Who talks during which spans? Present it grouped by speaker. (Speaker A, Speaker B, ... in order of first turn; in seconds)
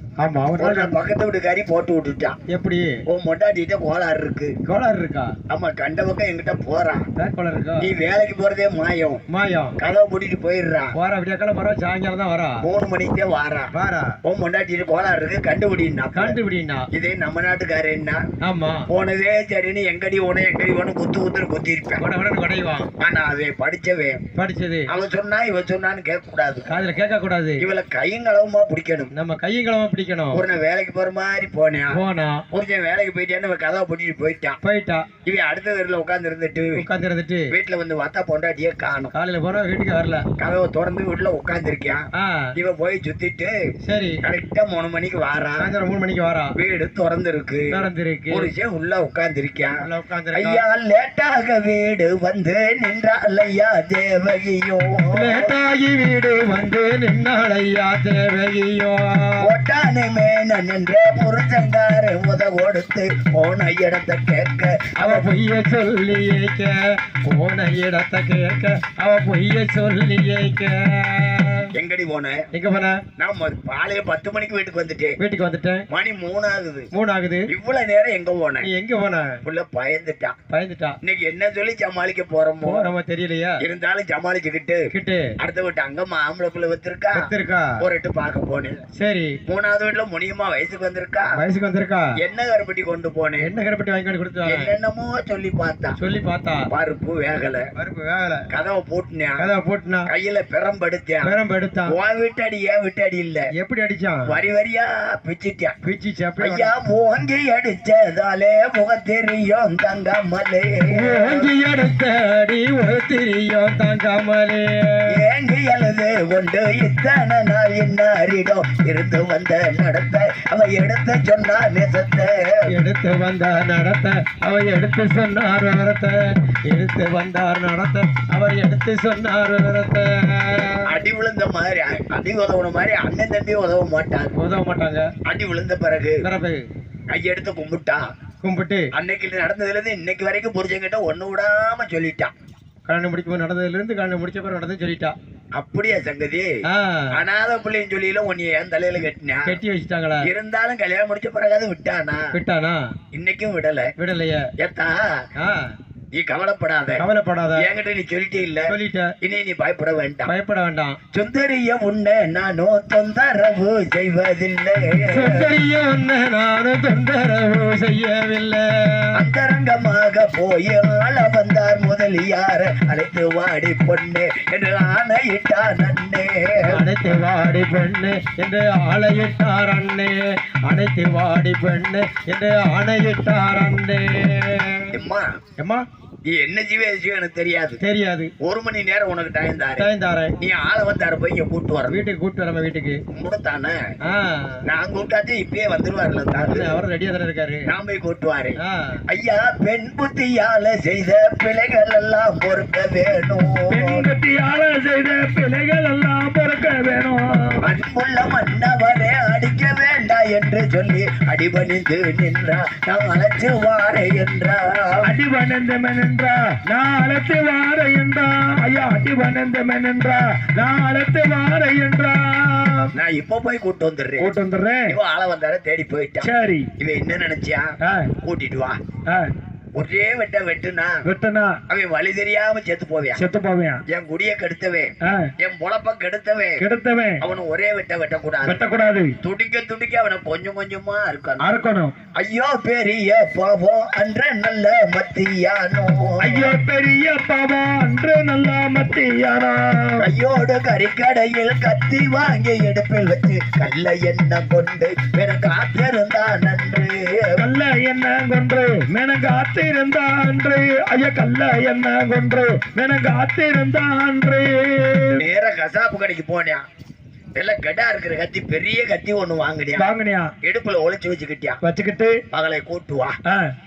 Speaker A: 0.2-0.9, 2.5-3.0, 4.7-5.4, 7.2-7.9, 9.3-9.8, 11.0-12.6, 13.7-14.2, 16.2-16.9, 18.4-18.9, 22.0-22.9, 24.4-24.9, 26.7-27.7, 29.1-30.4, 31.9-32.4, 34.6-35.1, 36.8-37.5, 39.1-40.2, 42.2-42.5, 43.9-44.2, 45.6-46.5, 47.7-48.5, 49.9-50.6, 55.1-59.5, 65.0-71.7, 72.5-73.0, 75.2-75.9, 76.9-77.5, 78.6-79.4, 80.5-81.0, 82.6-83.6, 84.9-85.3, 87.1-87.8, 89.0-89.4, 91.4-92.1, 93.4-94.7, 96.0-96.7, 97.8-98.5, 99.4-100.1, 101.2-102.0, 103.6-104.3, 105.8-106.7, 110.9-115.2, 122.7-130.9, 134.4-135.1, 136.2-136.6, 138.4-138.9, 142.9-145.2, 146.7-147.2, 149.5-150.3, 152.3-152.8, 154.0-154.5, 155.4-155.7, 157.0-157.7, 158.7-159.1, 160.3-161.0, 165.1-169.1, 176.7-184.9, 185.6-185.8, 187.8-188.3, 189.8-190.3, 191.9-193.0, 194.1-194.6, 196.3-197.6, 198.6-199.0
Speaker B: 0.6-2.4, 3.1-4.5, 5.5-7.1, 7.8-9.2, 9.8-10.9, 12.6-13.7, 14.2-16.4, 16.9-18.2, 18.9-22.0, 23.0-24.2, 24.9-26.8, 27.6-29.1, 30.3-34.6, 35.3-36.9, 37.5-39.1, 40.4-42.0, 42.6-43.5, 44.2-45.7, 46.6-47.7, 48.3-49.8, 50.3-55.5, 59.4-65.3, 71.7-72.4, 73.2-75.2, 75.9-76.9, 77.5-78.7, 79.4-80.3, 81.0-82.9, 83.6-84.8, 85.4-88.8, 89.5-91.3, 92.2-93.5, 94.4-96.0, 96.7-97.6, 98.5-99.5, 100.1-103.5, 104.3-105.8, 106.4-111.5, 115.1-122.7, 130.8-134.3, 135.3-136.3, 137.1-138.0, 138.9-142.3, 145.6-146.6, 147.1-149.6, 150.2-152.3, 153.1-153.9, 154.6-155.1, 156.2-157.1, 157.6-160.3, 161.1-165.5, 169.2-176.9, 184.9-185.4, 186.3-187.8, 188.4-189.9, 190.4-192.0, 193.1-193.8, 194.7-196.8, 197.7-198.6, 199.1-204.1, 207.6-215.1, 222.9-224.3, 224.9-228.8, 229.8-231.0, 231.7-233.2, 233.9-236.6, 237.2-238.6, 239.2-241.5, 242.2-246.6, 250.0-257.4, 265.2-266.6, 267.4-271.6, 272.3-273.1
Speaker C: 203.7-207.6, 215.0-222.9, 224.2-225.0, 226.2-226.7, 227.8-228.1, 231.1-231.6, 233.2-233.8, 235.0-235.3, 236.6-237.2, 238.4-239.2, 241.4-241.9, 246.2-250.1, 257.4-265.2, 269.8-270.3, 271.6-272.2